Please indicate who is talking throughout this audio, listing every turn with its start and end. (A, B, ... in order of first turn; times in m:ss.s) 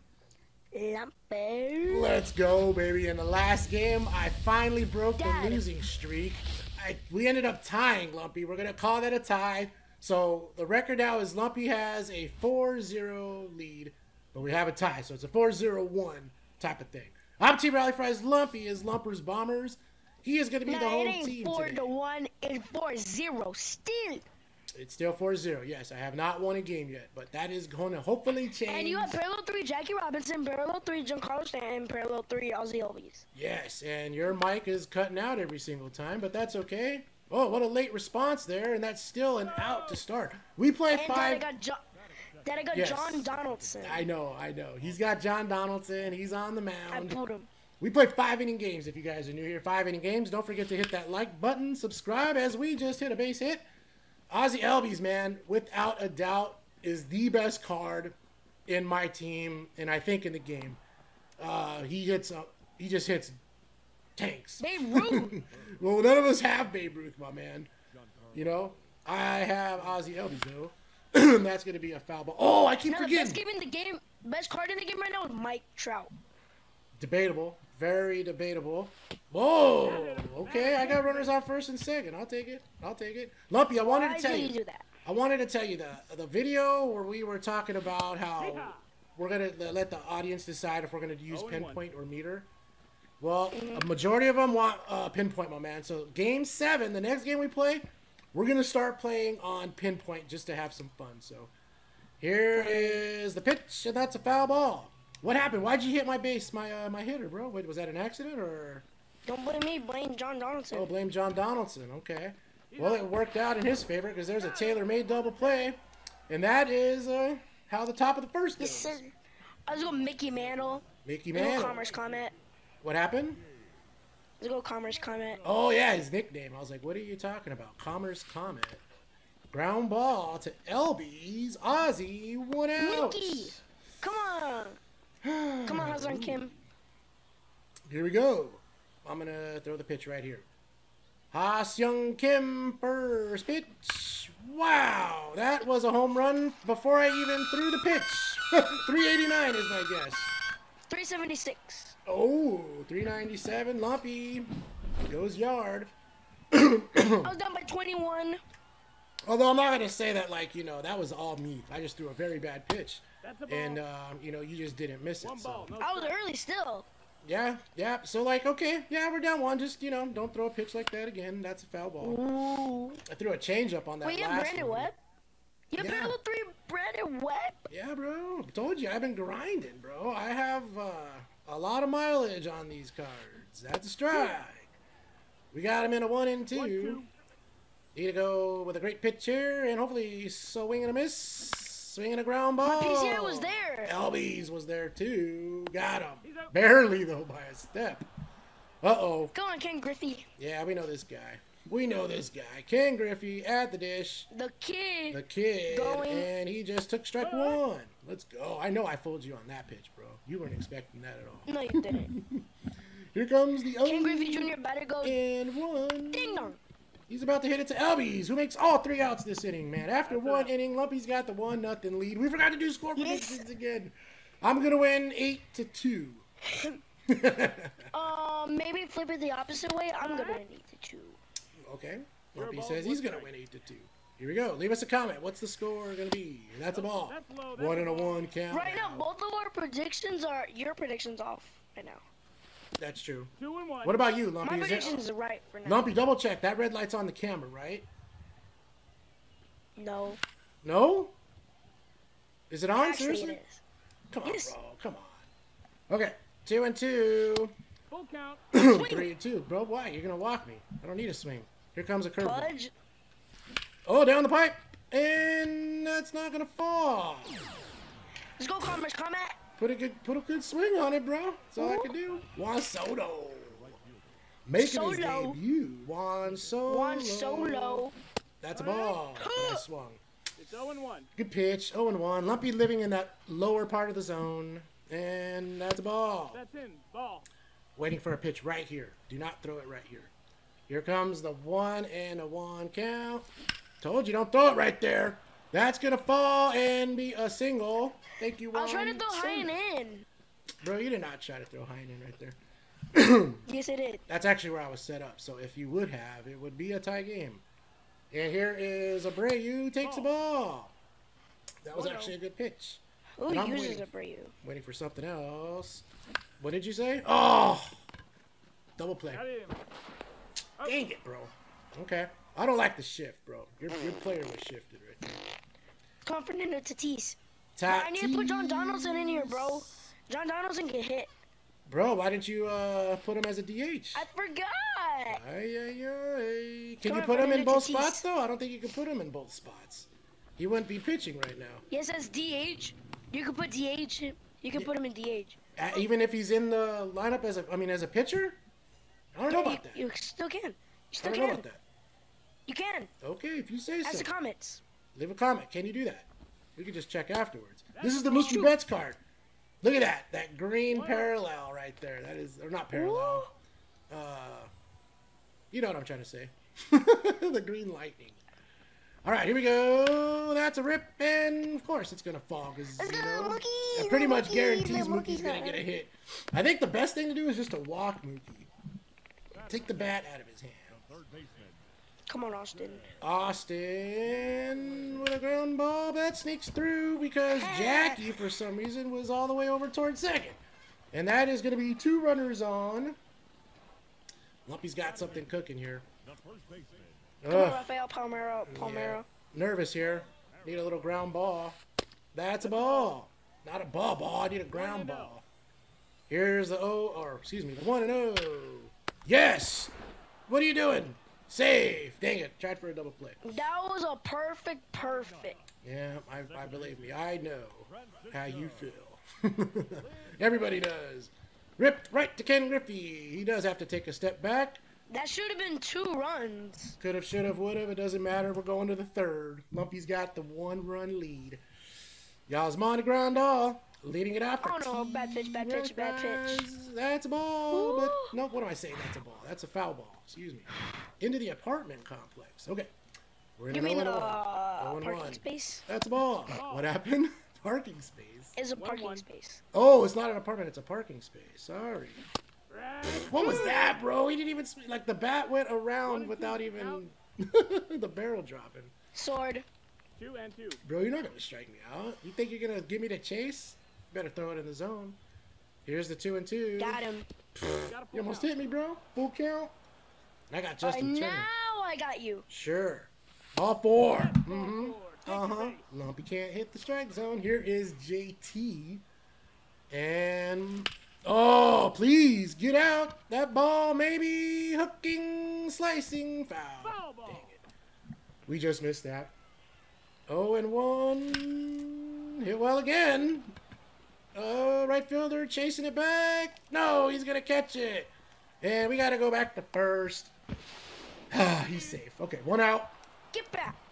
0:00.7-0:02.2 A
0:01.9-0:21.9 B
0:05.2-0:05.6 A
0:20.7-0:24.3 A
0:24.8-0:29.2 B
0:28.7-0:33.2 A
0:33.4-0:41.5 B
0:39.4-0:40.0 C
0:40.9-0:44.1 A
0:42.7-0:47.2 B
0:46.9-0:47.5 A
0:47.8-0:53.6 B
0:54.3-0:58.2 B
0:58.7-1:00.8 B
1:01.4-1:03.4 B
1:04.2-1:07.7 B
1:04.6-1:05.4 A
1:08.3-1:13.4 B
1:12.9-1:16.1 A
1:17.0-1:32.5 B
1:19.8-1:21.4 C
1:23.8-1:24.9 A
1:28.4-1:28.8 C
1:31.3-1:31.8 C
1:33.2-1:41.5 B
1:33.5-1:33.9 A
1:42.2-1:48.9 B
1:42.5-1:43.0 A
1:49.3-1:50.9 A
1:50.7-1:59.0 B
1:52.7-1:53.1 C
1:54.4-1:55.6 C
1:58.6-1:59.2 A
1:59.7-2:02.3 A
2:01.0-2:01.9 B
2:02.8-2:03.4 B
2:04.4-2:05.4 A
2:05.4-2:08.8 B
2:09.5-2:13.6 B
2:12.8-2:14.8 A
2:15.2-2:16.5 B
2:15.6-2:16.5 A
2:17.9-2:20.5 B
2:21.3-2:30.3 B
2:30.9-2:32.0 A
2:32.1-2:34.5 B
2:35.1-2:35.9 B
2:36.5-2:37.3 B
2:37.2-2:38.4 A
2:39.3-2:45.7 B
2:43.2-2:43.8 C
2:45.2-2:46.2 C
2:45.8-2:46.9 A
2:47.2-2:52.2 B
2:52.0-2:53.0 A
2:53.1-2:54.9 B
2:54.0-2:55.0 A
2:55.7-2:57.6 A
2:55.8-2:56.2 B
2:57.7-3:04.7 B
3:04.1-3:04.4 A
3:05.5-3:07.0 B
3:06.5-3:07.1 C
3:08.0-3:18.1 B
3:12.6-3:13.9 A
3:16.2-3:16.5 C
3:18.8-3:19.3 B
3:19.3-3:20.3 A
3:20.4-3:24.3 B
3:24.3-3:26.3 A
3:25.1-3:32.4 B
3:27.2-3:27.6 C
3:31.5-3:32.1 A
3:33.1-3:36.6 B
3:33.8-3:35.2 A
3:36.1-3:36.6 A
3:37.1-3:46.3 B
3:40.1-3:40.5 C
3:43.0-3:43.4 A
3:46.5-3:46.8 A
3:47.1-3:47.9 B
3:47.9-3:51.2 A
3:50.0-3:50.4 C
3:51.6-3:59.1 B
3:52.4-3:53.3 C
3:56.7-3:58.3 C
3:58.5-4:02.0 A
4:02.8-4:03.3 B
4:03.4-4:04.2 C
4:03.8-4:05.0 B
4:04.4-4:05.9 A
4:05.6-4:07.9 B
4:09.8-4:10.2 A
4:10.6-4:11.2 B
4:12.5-4:13.4 B
4:12.7-4:13.6 A
4:14.1-4:15.3 B
4:14.2-4:14.6 A
4:15.9-4:17.5 B
4:17.9-4:18.4 C
4:18.5-4:22.5 B
4:18.6-4:19.1 A
4:22.2-4:22.7 A
4:23.9-4:27.4 B
4:28.4-4:29.4 A
4:29.6-4:33.8 B
4:31.6-4:32.0 A
4:34.5-4:37.9 B
4:34.6-4:35.4 A
4:36.7-4:38.0 A
4:38.4-4:40.0 B
4:38.6-4:39.0 C
4:39.1-4:39.6 A
4:40.4-4:41.1 C
4:41.2-4:46.4 B
4:46.3-4:47.3 C
4:47.8-4:50.1 B
4:50.7-4:53.3 B
4:53.8-4:59.5 B
4:58.5-5:00.1 A
5:00.6-5:02.4 B
5:02.9-5:03.4 B
5:03.5-5:04.0 A
5:04.1-5:07.4 B
5:08.1-5:10.7 B
5:09.8-5:10.1 C
5:11.6-5:13.9 B
5:11.7-5:12.2 C
5:13.2-5:14.3 A
5:14.4-5:15.8 B
5:16.4-5:17.8 B
5:18.8-5:19.2 B
5:19.1-5:19.6 C
5:20.6-5:25.2 B
5:26.0-5:31.1 A
5:27.6-5:29.9 B
5:31.7-5:34.1 B
5:34.0-5:35.2 A
5:35.1-5:41.6 B
5:36.8-5:38.0 A
5:41.7-5:45.4 A
5:45.6-5:48.4 B
5:49.1-5:49.8 B
5:49.3-5:51.4 A
5:51.0-5:51.6 B
5:52.5-5:52.9 A
5:53.0-5:54.1 B
5:53.8-5:54.6 A
5:55.0-5:59.0 B
5:57.7-5:58.4 C
5:58.0-5:58.5 A
5:59.6-6:03.3 B
6:00.7-6:01.1 C
6:02.7-6:03.3 A
6:03.9-6:04.5 B
6:05.5-6:08.2 B
6:09.0-6:18.5 B
6:12.8-6:15.6 A
6:19.3-6:19.9 C
6:19.4-6:20.8 B
6:21.0-6:21.6 C
6:22.1-6:22.9 A
6:23.0-6:30.4 B
6:27.3-6:28.2 A
6:30.9-6:33.0 B
6:34.5-6:35.9 B
6:34.8-6:35.3 C
6:36.2-6:36.9 C
6:37.2-6:37.6 B
6:37.3-6:39.1 A
6:38.5-6:41.6 B
6:40.2-6:40.4 C
6:42.1-6:45.2 B
6:42.4-6:43.0 C
6:44.5-6:45.1 C
6:46.1-6:49.7 B
6:50.3-6:53.2 B
6:53.2-6:55.4 A
6:54.8-6:55.4 C
6:55.6-7:04.6 B
6:57.7-6:58.7 C
7:04.9-7:06.8 A
7:06.8-7:11.4 B
7:12.3-7:20.5 B
7:14.4-7:16.5 A
7:17.5-7:18.2 A
7:21.0-7:22.7 B
7:23.4-7:28.4 B
7:23.5-7:25.6 A
7:26.3-7:26.7 C
7:28.4-7:29.4 A
7:28.6-7:29.0 C
7:29.5-7:32.0 B
7:32.5-7:33.8 C
7:32.9-7:38.7 B
7:33.2-7:33.6 A
7:35.9-7:36.8 C
7:38.9-7:39.5 A
7:40.0-7:40.6 C
7:40.6-7:45.0 B
7:45.7-7:46.8 B
7:46.6-7:47.1 A
7:47.4-7:49.5 B
7:47.6-7:48.3 C
7:50.3-7:51.3 B
7:50.6-7:52.3 A
7:52.3-7:58.8 B
7:54.0-7:55.6 C
7:59.7-8:07.4 B
8:06.6-8:07.3 C
8:08.3-8:09.1 B
8:10.1-8:13.4 B
8:14.1-8:20.1 B
8:21.1-8:22.7 B
8:21.4-8:21.7 C
8:23.1-8:23.6 A